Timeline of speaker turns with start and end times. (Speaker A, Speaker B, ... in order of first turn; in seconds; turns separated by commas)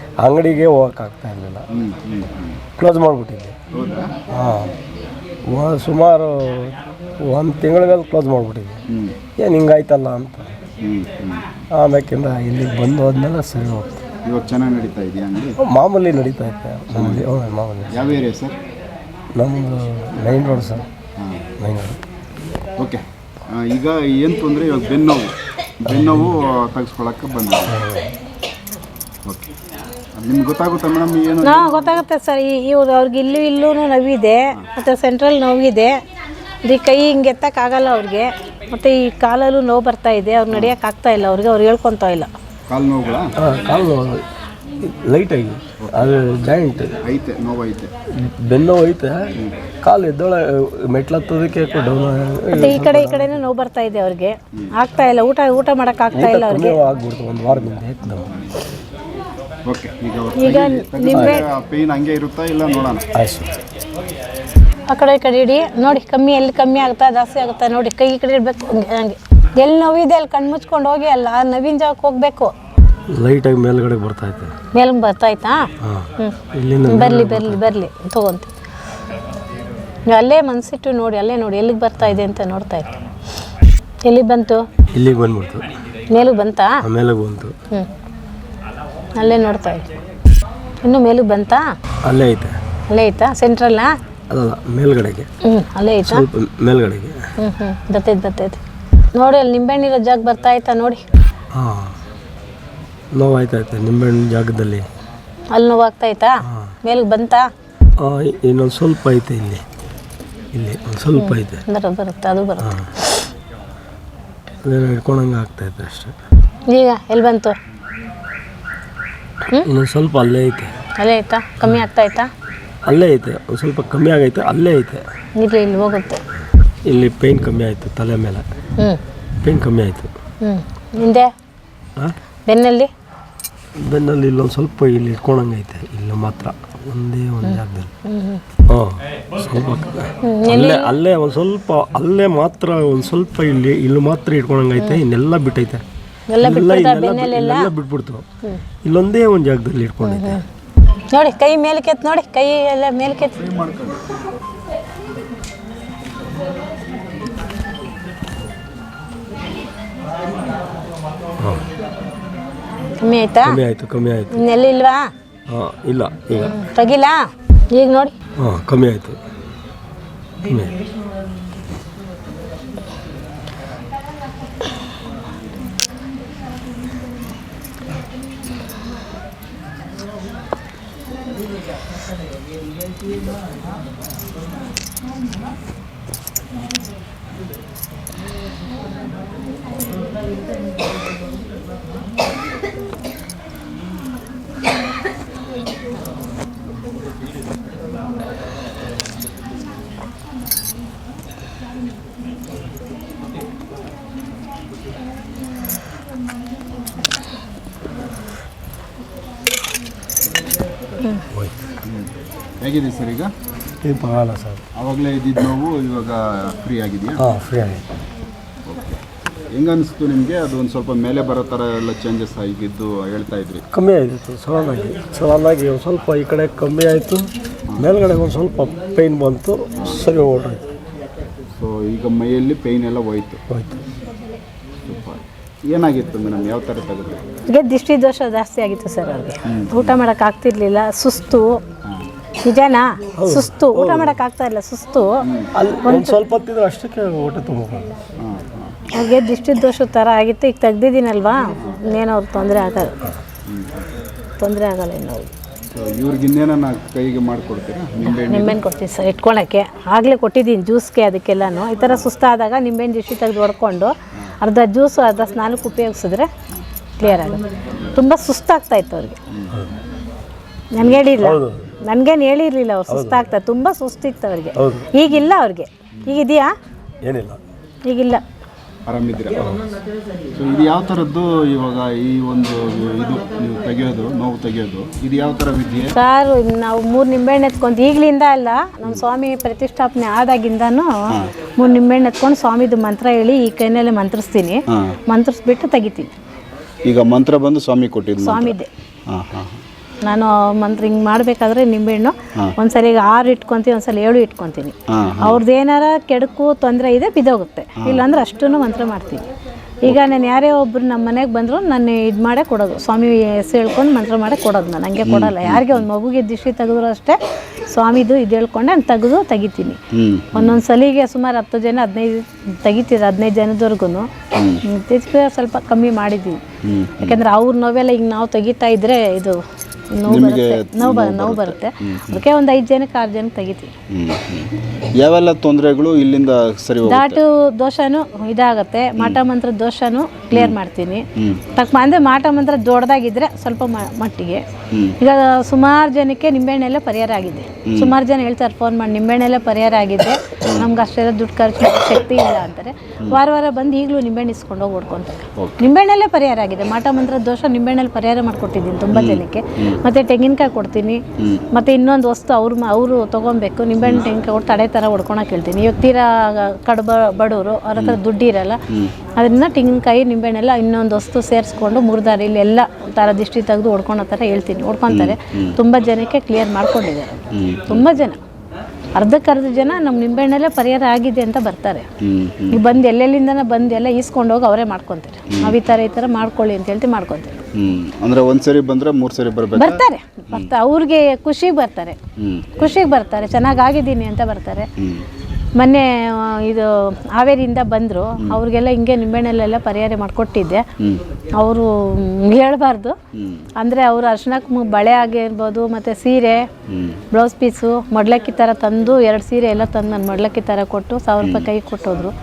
Speaker A: 0.2-1.7, Speaker B: 1.7-2.6, Speaker A: 2.8-3.6, Speaker B: 3.7-4.1, Speaker A: 4.3-4.7, Speaker A: 5.5-8.8, Speaker B: 8.9-9.2, Speaker A: 9.4-10.5, Speaker B: 10.8-11.4, Speaker A: 11.8-14.0, Speaker B: 14.3-15.6, Speaker A: 15.6-18.1, Speaker B: 16.9-17.3, Speaker B: 17.9-18.6, Speaker A: 19.4-20.9, Speaker A: 21.6-22.0, Speaker B: 22.8-27.8, Speaker A: 25.9-26.4, Speaker A: 27.7-28.1, Speaker B: 29.3-29.5, Speaker B: 30.2-32.0, Speaker C: 31.4-36.0, Speaker C: 36.6-42.3, Speaker B: 42.7-43.3, Speaker A: 43.4-44.2, Speaker A: 44.8-46.9, Speaker B: 47.0-47.9, Speaker A: 48.2-53.4, Speaker C: 52.5-56.8, Speaker A: 56.1-58.3, Speaker B: 59.7-63.1, Speaker C: 60.4-61.5, Speaker A: 61.1-61.4, Speaker A: 63.1-63.6, Speaker C: 64.9-72.5, Speaker A: 73.1-74.5, Speaker C: 74.7-75.7, Speaker A: 75.8-77.8, Speaker C: 76.9-78.5, Speaker C: 80.1-82.9, Speaker C: 84.0-84.7, Speaker A: 84.9-85.7, Speaker C: 86.1-86.8, Speaker A: 86.8-87.5, Speaker C: 89.2-90.0, Speaker C: 90.8-91.6, Speaker A: 92.0-92.6, Speaker C: 92.9-93.9, Speaker A: 94.3-95.3, Speaker C: 95.4-96.2, Speaker A: 96.0-97.3, Speaker C: 97.4-98.6, Speaker C: 99.2-101.0, Speaker A: 101.5-102.0, Speaker A: 103.2-104.9, Speaker C: 105.5-107.5, Speaker A: 106.5-106.8, Speaker A: 108.0-109.6, Speaker A: 110.5-111.6, Speaker C: 111.2-113.1, Speaker A: 112.6-112.9, Speaker A: 114.7-116.2, Speaker C: 116.7-117.6, Speaker A: 119.6-120.7, Speaker C: 121.0-122.3, Speaker A: 122.8-125.0, Speaker C: 125.4-126.2, Speaker A: 126.9-128.5, Speaker A: 129.4-130.1, Speaker C: 130.4-131.3, Speaker C: 132.5-132.9, Speaker A: 133.8-137.9, Speaker C: 137.4-138.4, Speaker A: 138.7-145.8, Speaker C: 140.2-140.9, Speaker C: 146.3-147.7, Speaker A: 146.4-148.3, Speaker A: 148.8-150.4, Speaker C: 150.0-150.4, Speaker C: 151.1-153.4, Speaker B: 153.2-154.0, Speaker A: 161.4-161.7, Speaker C: 163.0-163.6, Speaker A: 163.4-164.4, Speaker C: 164.3-165.1, Speaker A: 165.5-166.6, Speaker C: 166.4-168.1, Speaker A: 168.4-169.2, Speaker A: 170.4-170.8, Speaker B: 212.6-213.3, Speaker A: 213.8-214.7, Speaker B: 214.8-217.2, Speaker A: 217.2-217.8, Speaker B: 218.7-219.0, Speaker B: 219.6-223.6, Speaker A: 223.7-230.7, Speaker B: 231.6-233.4, Speaker A: 233.5-233.8, Speaker B: 234.9-237.2, Speaker C: 237.5-241.6, Speaker B: 239.5-240.0, Speaker C: 242.4-245.2, Speaker A: 243.2-244.2, Speaker B: 245.2-245.5, Speaker A: 245.6-247.9, Speaker C: 245.8-246.2, Speaker B: 248.2-248.8, Speaker C: 248.9-252.9, Speaker B: 253.5-253.9, Speaker C: 254.4-255.3, Speaker B: 255.7-258.6, Speaker C: 258.0-266.3, Speaker C: 267.0-267.4, Speaker C: 267.9-269.2, Speaker B: 269.3-269.7, Speaker C: 270.8-276.5, Speaker B: 270.8-271.1, Speaker A: 271.2-271.7, Speaker A: 272.9-273.2, Speaker A: 274.6-274.9, Speaker A: 277.0-277.4, Speaker C: 277.9-278.2, Speaker B: 278.9-279.6, Speaker A: 279.4-279.6, Speaker B: 280.4-286.0, Speaker C: 285.9-290.9, Speaker C: 291.6-296.1, Speaker B: 296.9-298.6, Speaker C: 298.2-298.7, Speaker B: 299.1-299.6, Speaker C: 300.0-309.2, Speaker B: 304.9-305.4, Speaker B: 307.8-308.1, Speaker C: 309.9-317.2, Speaker B: 315.1-315.9, Speaker C: 317.7-319.8, Speaker B: 319.9-320.6, Speaker C: 320.3-324.1, Speaker B: 324.4-324.6, Speaker C: 324.6-326.4, Speaker B: 326.6-327.2, Speaker C: 327.0-329.4, Speaker C: 329.9-333.7, Speaker B: 330.1-332.2, Speaker B: 333.9-337.2, Speaker C: 336.9-344.4, Speaker C: 345.0-361.0, Speaker B: 347.7-347.9, Speaker B: 355.4-355.6, Speaker B: 358.9-359.8, Speaker B: 361.2-361.4, Speaker C: 361.5-368.6, Speaker C: 369.2-378.2, Speaker B: 374.9-375.6, Speaker B: 377.4-377.9, Speaker C: 379.0-381.9, Speaker B: 382.0-382.8, Speaker C: 382.5-387.4, Speaker B: 387.6-390.5, Speaker C: 389.6-392.0, Speaker B: 392.2-392.7, Speaker C: 392.6-394.7, Speaker B: 394.8-395.1, Speaker C: 395.6-400.6, Speaker B: 400.8-401.0, Speaker C: 401.3-402.9, Speaker B: 403.1-403.4, Speaker C: 403.6-406.5, Speaker B: 406.7-407.0, Speaker C: 407.1-412.1, Speaker B: 411.2-411.5